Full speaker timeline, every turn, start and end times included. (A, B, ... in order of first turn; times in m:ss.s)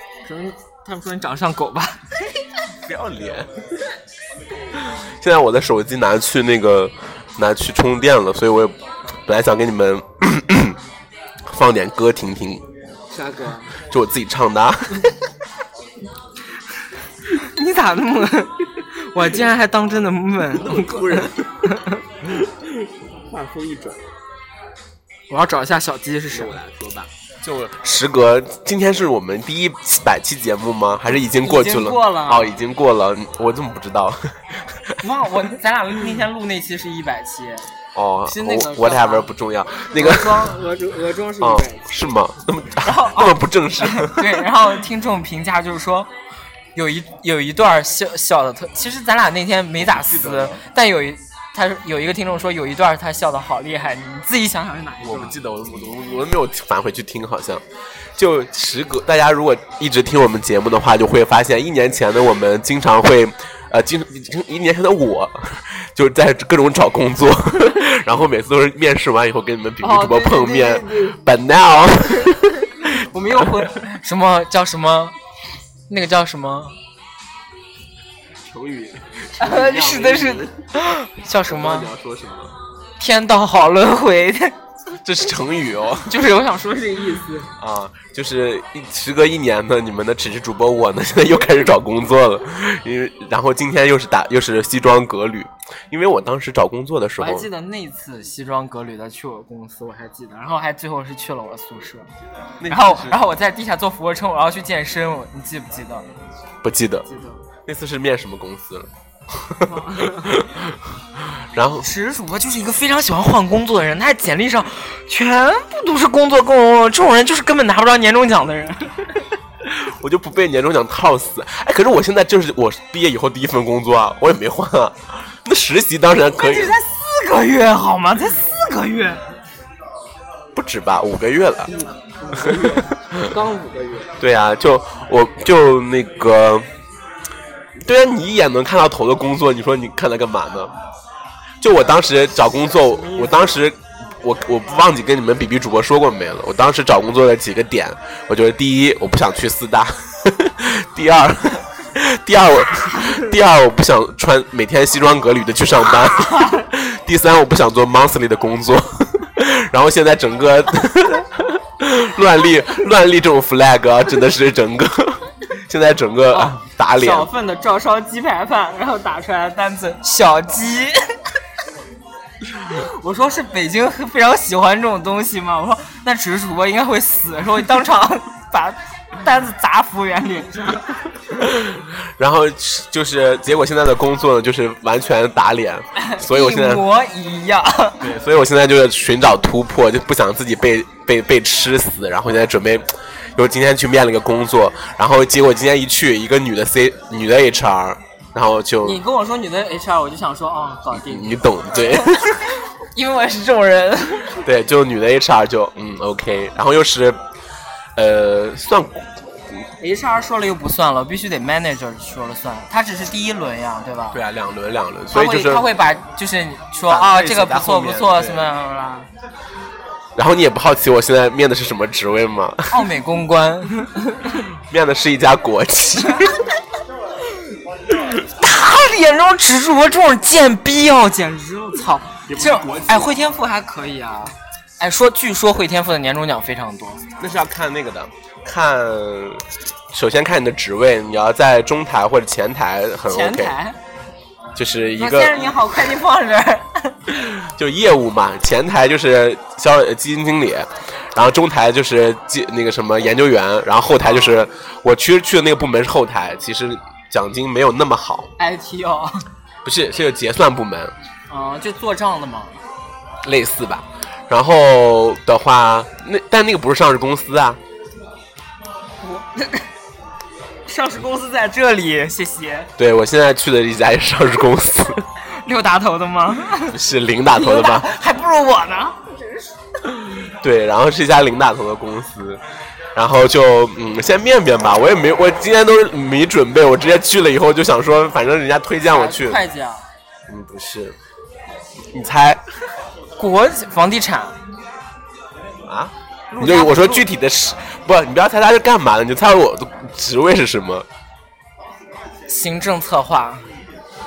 0:00.2-0:02.2 A
0:02.8-0:03.5 B
0:04.7-0:10.8 B
0:11.4-0:12.6 B
0:13.1-0:13.7 A
0:13.8-0:15.1 B
0:17.3-0:22.0 A
0:20.5-0:21.7 B
0:22.2-0:24.0 B
0:25.3-0:26.6 A
0:26.3-0:35.0 B
0:31.4-0:32.6 A
0:35.0-0:37.7 A
0:37.9-0:40.6 B
0:38.2-0:39.3 A
0:39.9-0:42.0 A
0:41.4-0:44.6 B
0:42.8-0:46.1 A
0:46.7-0:55.4 A
0:49.8-0:50.6 B
0:55.0-0:57.6 B
0:58.2-1:13.7 B
1:09.8-1:11.2 A
1:12.2-1:15.1 A
1:15.9-1:16.8 A
1:18.4-1:20.7 B
1:19.4-1:21.9 A
1:21.4-1:22.5 B
1:23.0-1:24.5 A
1:25.0-1:26.2 B
1:26.0-1:27.5 A
1:27.6-1:37.5 B
1:37.2-1:42.1 A
1:42.6-1:43.2 B
1:42.6-1:46.0 A
1:46.6-1:47.1 B
1:47.1-1:47.4 A
1:47.6-1:51.9 B
1:49.6-1:50.5 A
1:51.8-1:59.2 A
1:59.6-2:06.8 B
2:06.4-2:09.2 A
2:10.5-2:11.7 B
2:11.7-2:14.1 A
2:12.5-2:13.3 B
2:14.2-2:16.7 B
2:17.8-2:20.7 B
2:21.6-2:47.3 B
2:22.6-2:23.6 A
2:36.1-2:36.6 A
2:46.3-2:51.0 A
2:52.6-3:00.9 A
3:01.4-3:06.9 B
3:06.0-3:08.1 A
3:08.0-3:19.0 B
3:18.8-3:24.4 A
3:20.9-3:22.3 B
3:24.4-3:27.2 B
3:28.0-3:29.1 B
3:29.8-3:34.2 A
3:34.1-3:35.7 B
3:35.1-3:39.1 A
3:36.9-3:38.5 B
3:40.2-3:42.8 B
3:42.7-3:44.4 A
3:44.7-3:46.4 B
3:46.1-3:46.4 A
3:48.2-3:57.0 A
3:52.3-3:53.2 B
3:57.2-4:03.6 B
4:03.1-4:03.8 A
4:04.5-4:05.6 B
4:05.0-4:07.0 A
4:07.1-4:18.3 B
4:14.0-4:14.4 A
4:18.4-4:19.2 A
4:19.6-4:20.9 B
4:21.3-4:22.6 A
4:23.2-4:27.6 B
4:29.0-4:29.7 A
4:30.6-4:32.7 A
4:32.8-4:35.0 B
4:35.3-4:36.8 A
4:36.7-4:37.9 B
4:37.3-4:39.5 A
4:40.0-4:42.4 B
4:42.9-4:49.4 B
4:48.8-4:49.8 A
4:50.3-4:51.0 B
4:51.9-4:52.4 B
4:53.2-4:54.4 A
4:55.6-5:00.8 B
4:56.3-4:57.1 A
5:02.3-5:03.4 A